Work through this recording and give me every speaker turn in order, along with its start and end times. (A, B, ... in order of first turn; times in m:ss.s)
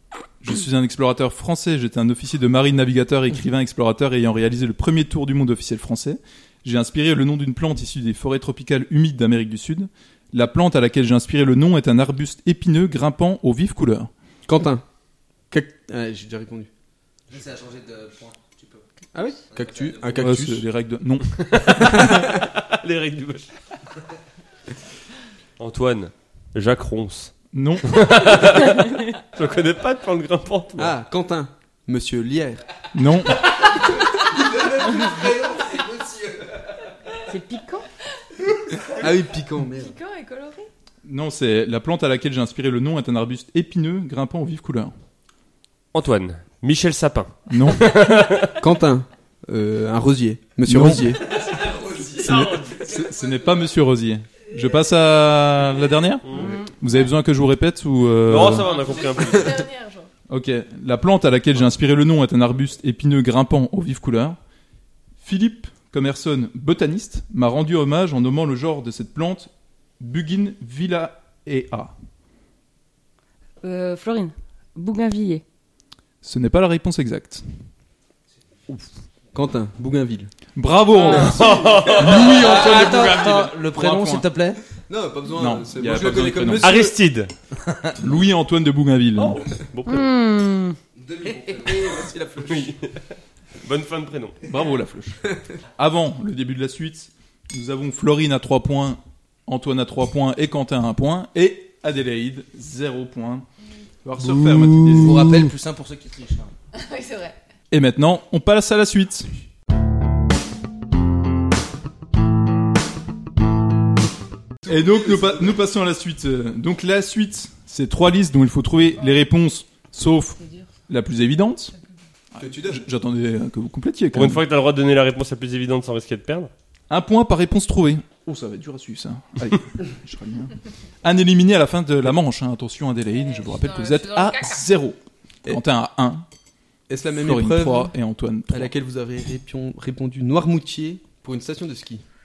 0:00.4-0:14.1 A
0:14.5-0:14.8 B
0:15.5-0:16.7 B
0:17.3-0:18.8 C
0:19.1-0:20.6 B
0:19.5-0:20.2 C
0:20.2-0:22.1 A
0:21.4-0:23.5 D
0:22.0-0:22.3 B
0:25.6-0:27.3 D
0:27.5-0:28.5 A
0:27.8-0:30.9 D
0:30.8-0:32.6 B
0:32.9-0:33.5 A
0:34.1-0:36.5 C
0:37.2-0:37.8 E
0:38.8-0:39.9 B
0:39.6-0:40.7 F
0:41.0-0:44.9 A
0:45.9-0:48.6 D
0:47.5-0:48.0 A
0:48.6-0:51.2 B
0:50.6-0:51.2 A
0:52.1-0:52.8 D
0:52.2-0:58.7 A
0:56.2-0:56.6 D
0:56.4-0:56.7 E
0:58.2-0:59.6 D
0:58.6-1:00.1 F
1:00.3-1:04.4 A
1:05.2-1:11.9 A
1:13.6-1:15.4 E
1:16.2-1:17.4 A
1:19.3-1:20.3 B
1:20.5-1:24.3 A
1:21.0-1:22.6 B
1:21.0-1:22.6 D
1:22.0-1:24.6 C
1:24.8-1:26.9 B
1:25.3-1:26.9 A
1:26.6-1:27.3 D
1:28.0-1:29.4 A
1:29.2-1:30.1 D
1:29.8-1:30.8 E
1:31.0-1:32.1 C
1:31.3-1:32.8 B
1:32.4-1:33.0 D
1:33.6-1:34.5 D
1:34.4-1:35.2 A
1:35.8-1:43.4 A
1:44.0-1:45.4 A
1:44.3-1:45.0 B
1:45.0-1:46.5 C
1:46.7-1:47.4 F
1:47.7-1:49.3 A
1:54.6-1:55.5 B
1:54.6-2:00.4 A
2:00.9-2:01.7 A
2:02.3-2:04.4 A
2:02.4-2:02.8 B
2:04.1-2:06.5 D
2:06.9-2:16.2 A
2:13.2-2:14.6 F
2:16.9-2:17.9 B
2:17.2-2:18.7 A
2:18.5-2:22.0 B